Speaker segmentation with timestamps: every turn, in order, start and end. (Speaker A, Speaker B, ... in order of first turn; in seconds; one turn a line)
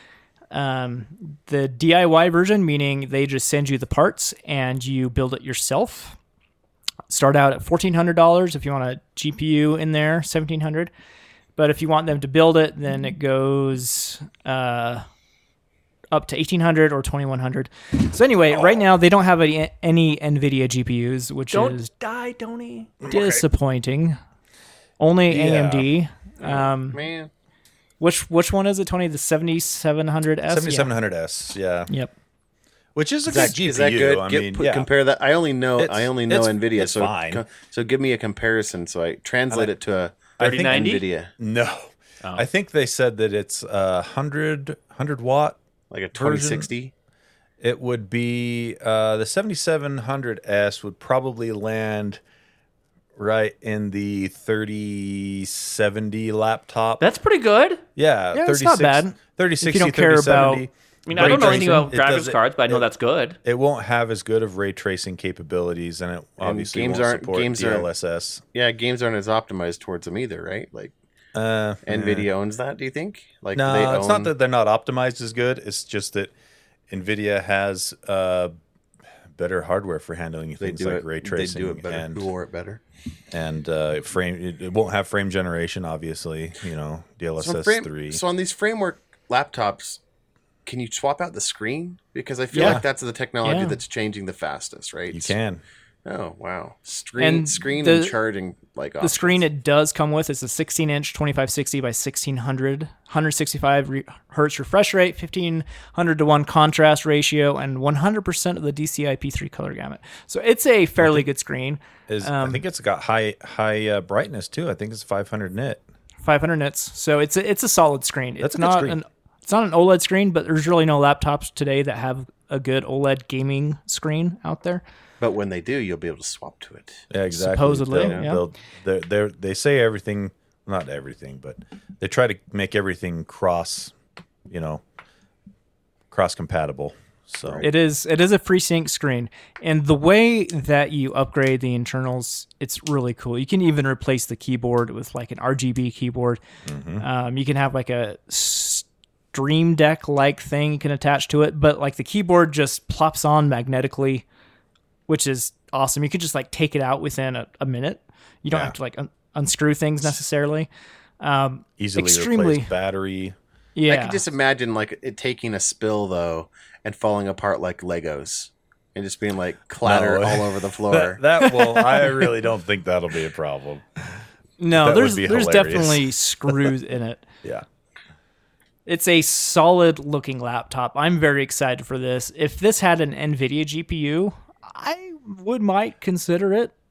Speaker A: 0.5-6.2
Speaker A: 7.1-10.9
Speaker A: 11.6-15.1
Speaker A: 16.1-21.9
Speaker B: 18.5-18.8
Speaker C: 21.5-23.0
Speaker B: 23.0-23.4
Speaker A: 23.0-24.2
Speaker A: 25.0-27.0
Speaker B: 25.3-25.9
Speaker D: 26.4-27.3
Speaker A: 28.0-30.9
Speaker B: 30.5-31.9
Speaker B: 33.0-34.9
Speaker D: 33.3-41.3
Speaker B: 35.8-37.4
Speaker B: 40.4-45.6
Speaker C: 40.4-41.0
Speaker D: 45.9-46.9
Speaker B: 46.1-46.7
Speaker B: 47.6-52.2
Speaker B: 53.1-57.0
Speaker C: 57.0-57.8
Speaker B: 58.0-62.9
Speaker A: 58.3-61.9
Speaker C: 61.1-63.4
Speaker B: 63.4-68.4
Speaker D: 66.4-67.9
Speaker D: 68.5-70.9
Speaker B: 71.3-72.3
Speaker D: 71.8-74.3
Speaker B: 73.5-76.3
Speaker B: 76.9-78.5
Speaker B: 79.3-82.3
Speaker D: 80.6-82.8
Speaker B: 83.3-88.2
Speaker D: 87.4-90.0
Speaker D: 90.7-95.3
Speaker A: 92.5-92.8
Speaker B: 92.5-92.8
Speaker A: 93.4-93.8
Speaker B: 95.1-95.6
Speaker D: 96.0-99.4
Speaker A: 97.2-98.2
Speaker A: 99.0-112.6
Speaker B: 111.0-111.3
Speaker B: 112.1-115.8
Speaker A: 116.2-124.8
Speaker B: 118.4-119.0
Speaker D: 125.2-127.1
Speaker B: 127.1-133.9
Speaker A: 127.3-128.4
Speaker D: 128.0-128.3
Speaker B: 134.5-134.8
Speaker B: 136.1-137.7
Speaker A: 137.6-146.4
Speaker B: 146.7-147.0
Speaker A: 147.0-154.2
Speaker A: 155.1-160.7
Speaker A: 161.2-162.7
Speaker B: 161.8-163.4
Speaker A: 163.8-164.2
Speaker D: 163.9-171.2
Speaker B: 169.8-174.2
Speaker A: 174.6-177.3
Speaker B: 174.7-176.7
Speaker A: 178.9-186.7